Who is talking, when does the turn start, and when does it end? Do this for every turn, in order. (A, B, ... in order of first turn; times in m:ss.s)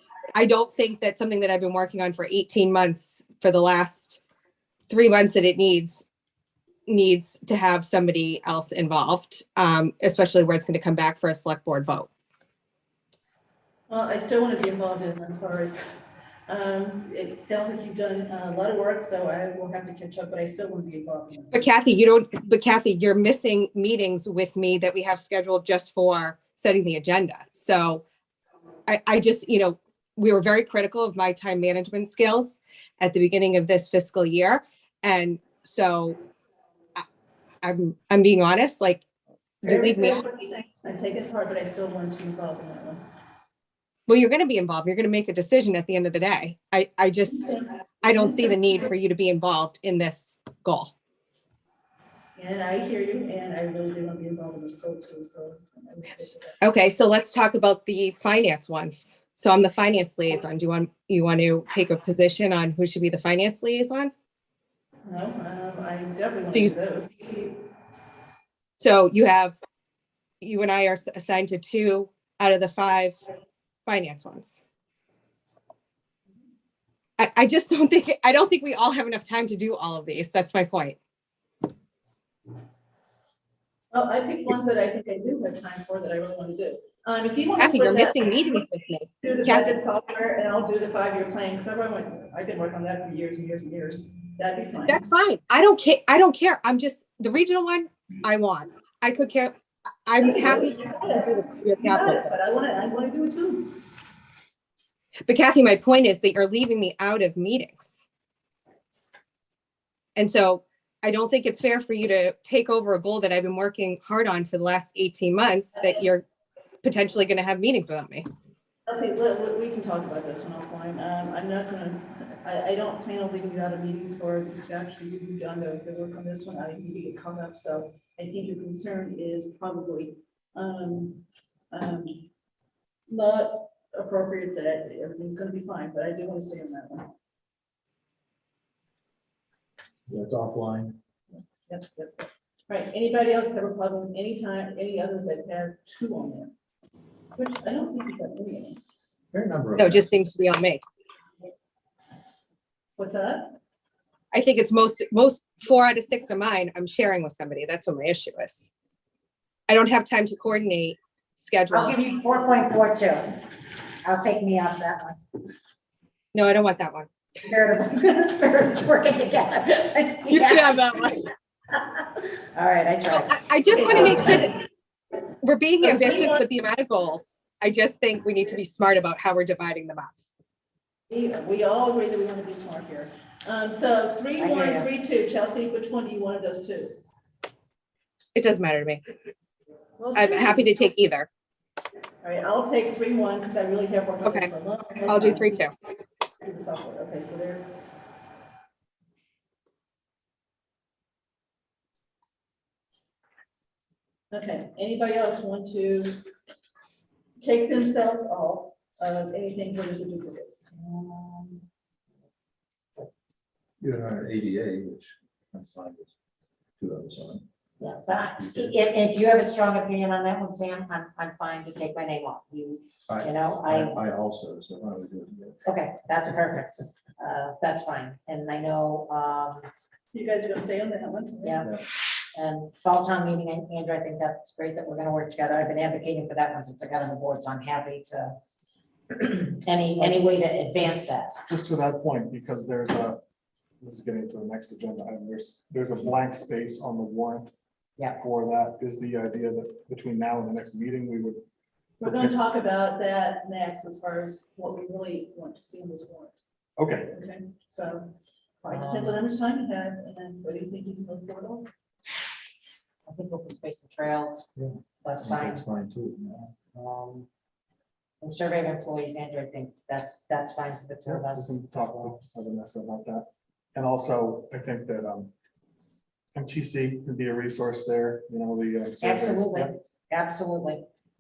0:00.3-0:04.2 A
0:04.9-0:06.0 A
0:06.9-0:12.1 A
0:13.9-0:15.7 B
0:16.5-0:21.5 B
0:21.5-0:28.0 A
0:28.9-0:36.2 A
0:37.6-0:39.0 A
0:39.6-0:40.2 A
0:39.7-0:43.0 B
0:44.1-0:50.9 A
0:52.4-0:56.4 B
0:56.6-1:04.1 A
1:05.1-1:07.1 B
1:08.8-1:09.6 A
1:10.4-1:13.2 A
1:13.8-1:14.6 A
1:17.2-1:21.0 A
1:23.9-1:28.1 B
1:27.6-1:29.6 A
1:29.2-1:34.9 B
1:34.9-1:39.5 A
1:40.0-1:42.3 A
1:40.2-1:41.0 B
1:41.9-1:43.6 B
1:45.3-1:48.0 A
1:50.2-1:56.2 A
1:56.8-1:58.2 A
1:58.9-2:12.2 B
2:13.1-2:17.0 B
2:20.1-2:21.0 C
2:21.7-2:22.1 B
2:22.7-2:26.5 B
2:27.4-2:28.8 B
2:29.3-2:30.1 C
2:29.8-2:30.8 A
2:33.0-2:33.4 B
2:34.3-2:38.7 A
2:39.7-2:42.0 A
2:41.7-2:43.4 D
2:44.0-2:45.2 D
2:46.3-2:47.1 A
2:47.4-2:51.2 D
2:50.3-2:51.2 A
2:51.7-2:52.0 D
2:52.5-2:54.4 D
2:53.1-2:54.6 A
2:55.4-3:00.1 A
2:56.0-2:56.3 B
3:01.1-3:06.9 B
3:04.4-3:04.9 D
3:08.3-3:09.0 A
3:10.0-3:10.6 B
3:10.1-3:11.3 A
3:12.2-3:15.4 B
3:15.1-3:15.7 A
3:16.4-3:17.6 B
3:24.3-3:26.1 B
3:27.4-3:30.5 B
3:30.7-3:31.6 D
3:33.8-3:36.1 C
3:36.8-3:37.4 C
3:37.8-3:44.0 D
3:38.4-3:38.7 C
3:43.0-3:45.6 C
3:45.6-3:49.7 D
3:50.1-3:51.5 B
3:51.6-3:51.8 C
3:52.3-3:58.3 D
3:59.1-4:01.4 D
4:01.5-4:03.2 E
4:03.8-4:07.5 E
4:08.2-4:11.4 E
4:12.0-4:16.3 B
4:12.0-4:12.4 E
4:16.8-4:17.1 E
4:17.1-4:18.0 B
4:18.6-4:21.6 B
4:18.7-4:19.2 D
4:23.1-4:25.6 D
4:24.6-4:26.5 C
4:26.6-4:27.3 D
4:28.2-4:32.2 D
4:31.0-4:35.3 E
4:36.3-4:39.7 E
4:39.0-4:40.8 D